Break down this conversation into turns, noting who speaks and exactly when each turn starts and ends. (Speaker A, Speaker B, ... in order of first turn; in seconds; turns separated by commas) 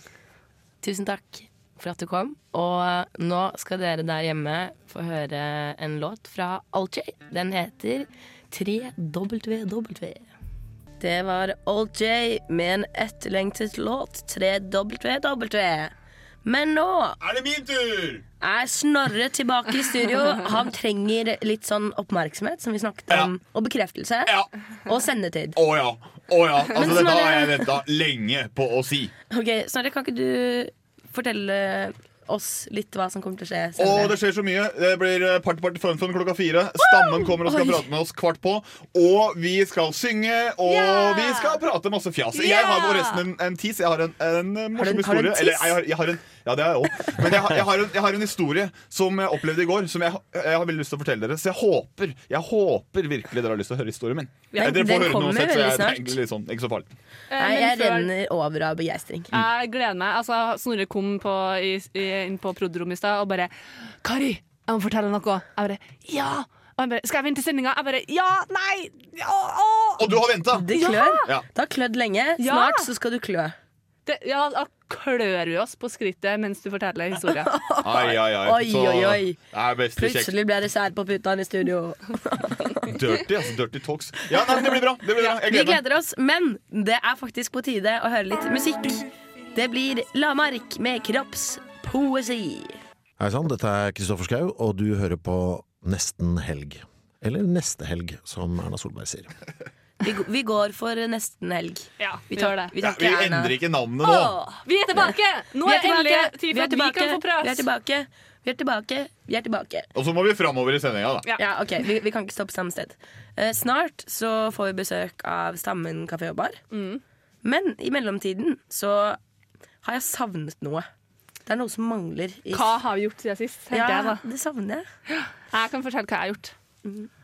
Speaker A: 0.8-10.2, Speaker A: 11.0-15.9, Speaker A: 16.4-17.2, Speaker B: 17.2-18.2, Speaker A: 18.4-25.6, Speaker B: 25.5-29.1, Speaker A: 26.7-27.7, Speaker A: 29.3-34.1, Speaker B: 33.8-56.9, Speaker A: 37.2-37.8, Speaker C: 40.6-41.6, Speaker C: 42.3-43.2, Speaker A: 44.8-45.8, Speaker A: 54.6-56.2, Speaker C: 57.3-58.1, Speaker A: 57.4-59.3, Speaker C: 59.3-63.5, Speaker C: 64.0-70.2, Speaker B: 70.0-70.7, Speaker A: 70.5-73.5, Speaker C: 70.7-71.3, Speaker C: 72.4-72.9, Speaker C: 74.0-77.5, Speaker A: 77.4-79.4, Speaker B: 77.8-80.3, Speaker A: 80.0-82.9, Speaker B: 82.9-85.8, Speaker A: 85.2-92.7, Speaker D: 93.2-99.3, Speaker A: 100.0-103.6, Speaker C: 102.0-102.7, Speaker B: 102.8-104.4, Speaker C: 104.0-107.7, Speaker A: 105.6-109.9, Speaker B: 110.0-111.2, Speaker A: 111.4-116.6, Speaker C: 116.7-117.0, Speaker A: 117.4-119.2, Speaker A: 119.8-120.8, Speaker A: 121.5-122.8, Speaker C: 122.5-124.2, Speaker A: 123.7-124.8, Speaker C: 125.1-126.5